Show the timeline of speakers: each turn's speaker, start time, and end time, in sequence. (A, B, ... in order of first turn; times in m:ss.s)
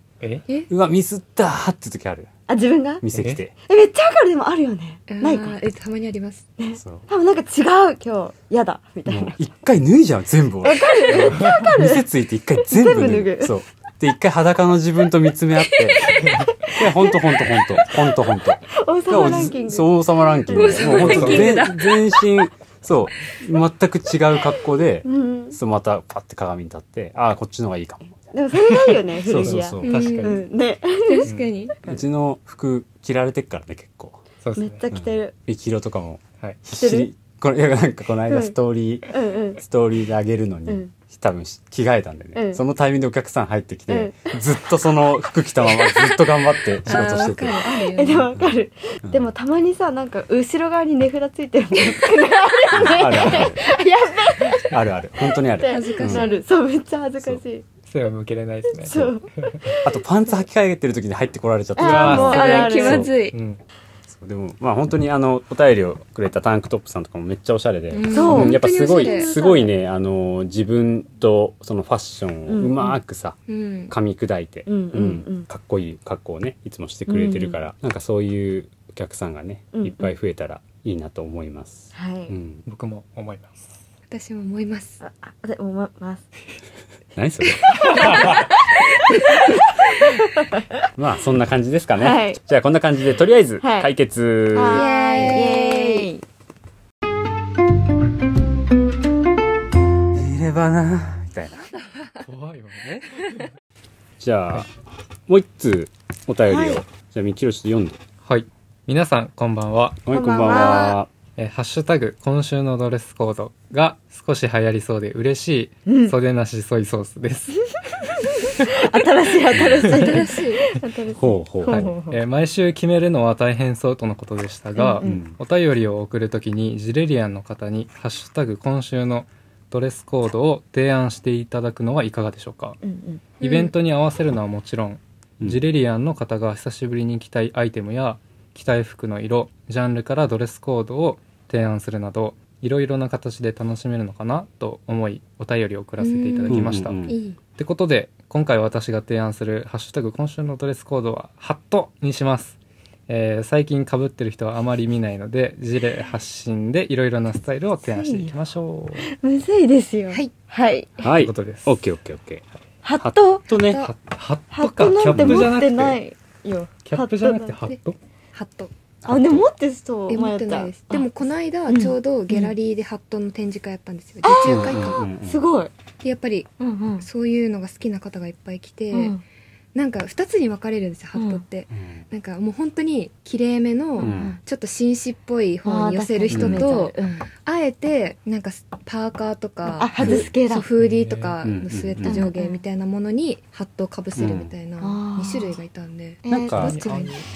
0:00.2-0:00.5 A
0:00.7-0:02.3 B
0:02.5-0:03.0 C
0:03.0-0:03.6 B
0:03.1-0:03.4 A
0:03.7-0:05.6 C
0:05.1-0:06.5 D
0:06.6-0:09.4 C
0:06.8-0:07.1 B
0:09.1-0:28.0 B
0:10.6-0:12.0 C
0:11.4-0:11.7 A
0:12.6-0:13.5 C
0:16.2-0:16.5 A
0:16.7-0:18.0 C
0:18.7-0:21.7 C
0:20.5-0:22.3 D
0:20.9-0:21.6 A
0:25.0-0:25.6 C
0:28.3-0:31.3 C
0:29.2-0:30.3 B
0:29.8-0:30.4 D
0:29.9-0:30.4 A
0:31.0-0:31.8 D
0:31.2-0:31.5 A
0:31.8-0:34.2 B
0:34.4-0:34.8 A
0:34.6-0:35.4 C
0:34.9-0:47.6 B
0:36.8-0:37.1 C
0:38.3-0:38.6 C
0:39.1-0:39.6 C
0:40.7-0:40.9 C
0:42.4-0:42.6 C
0:43.9-0:44.3 C
0:45.8-0:46.2 C
0:46.9-0:48.3 D
0:46.9-0:57.7 C
0:48.3-0:49.3 B
0:52.7-0:53.6 B
0:54.6-0:56.2 B
0:55.7-0:56.4 D
0:57.9-0:59.7 A
0:58.8-1:00.4 C
0:59.8-1:03.1 B
1:01.8-1:03.1 C
1:01.8-1:03.4 D
1:01.8-1:02.7 A
1:03.3-1:03.6 A
1:04.1-1:13.4 B
1:07.9-1:09.3 D
1:08.1-1:09.7 C
1:12.5-1:13.0 C
1:13.5-1:13.9 D
1:13.9-1:22.6 B
1:14.7-1:15.5 C
1:17.1-1:17.6 C
1:19.7-1:20.1 C
1:21.9-1:22.4 C
1:22.7-1:23.7 A
1:24.1-1:25.0 D
1:25.0-1:26.2 C
1:27.2-1:28.3 B
1:27.8-1:28.6 C
1:27.8-1:28.4 A
1:29.1-1:30.9 C
1:31.0-1:34.9 B
1:32.0-1:32.4 C
1:33.6-1:33.9 C
1:34.5-1:36.2 C
1:34.7-1:36.1 D
1:40.1-1:41.7 B
1:42.2-1:43.5 A
1:44.2-1:44.7 B
1:45.3-1:48.0 B
1:46.5-1:46.8 C
1:48.2-1:50.0 A
1:50.1-1:51.1 B
1:50.1-1:51.0 C
1:50.5-1:50.9 D
1:51.4-1:57.6 A
1:55.9-1:56.1 C
1:58.2-2:02.2 C
1:58.3-1:58.7 A
1:59.5-2:00.1 B
1:59.8-2:00.1 A
1:59.9-2:00.6 D
2:01.1-2:01.9 B
2:01.6-2:12.8 A
2:04.8-2:05.2 C
2:05.0-2:05.4 B
2:12.8-2:13.4 C
2:13.4-2:27.0 A
2:13.4-2:13.7 D
2:26.0-2:27.4 D
2:26.5-2:27.2 B
2:27.6-2:32.6 A
2:33.1-2:39.1 A
2:37.9-2:38.3 C
2:39.0-2:41.0 C
2:41.0-2:42.4 B
2:41.1-2:41.8 A
2:42.8-2:43.4 C
2:43.0-2:43.9 B
2:43.5-2:43.9 D
2:43.8-2:46.0 A
2:44.5-2:47.6 C
2:45.1-2:45.6 B
2:46.8-2:48.0 A
2:48.4-2:48.7 D
2:49.0-2:49.4 B
2:49.1-2:51.1 C
2:50.1-2:55.0 D
2:51.7-2:52.6 C
2:54.2-2:55.7 C
2:54.4-2:55.4 B
2:56.0-2:56.5 D
2:56.6-2:57.1 C
2:57.0-2:59.2 D
2:58.9-2:59.2 C
2:59.7-3:17.1 D
3:01.1-3:01.4 C
3:01.7-3:02.0 B
3:04.0-3:04.4 C
3:04.0-3:04.4 B
3:05.6-3:07.3 C
3:06.3-3:06.6 B
3:09.6-3:10.7 C
3:10.0-3:10.3 B
3:10.8-3:11.4 A
3:11.4-3:12.2 B
3:12.0-3:12.6 C
3:14.2-3:14.5 B
3:14.8-3:15.6 C
3:16.2-3:16.8 C
3:16.3-3:16.8 B
3:16.6-3:17.3 A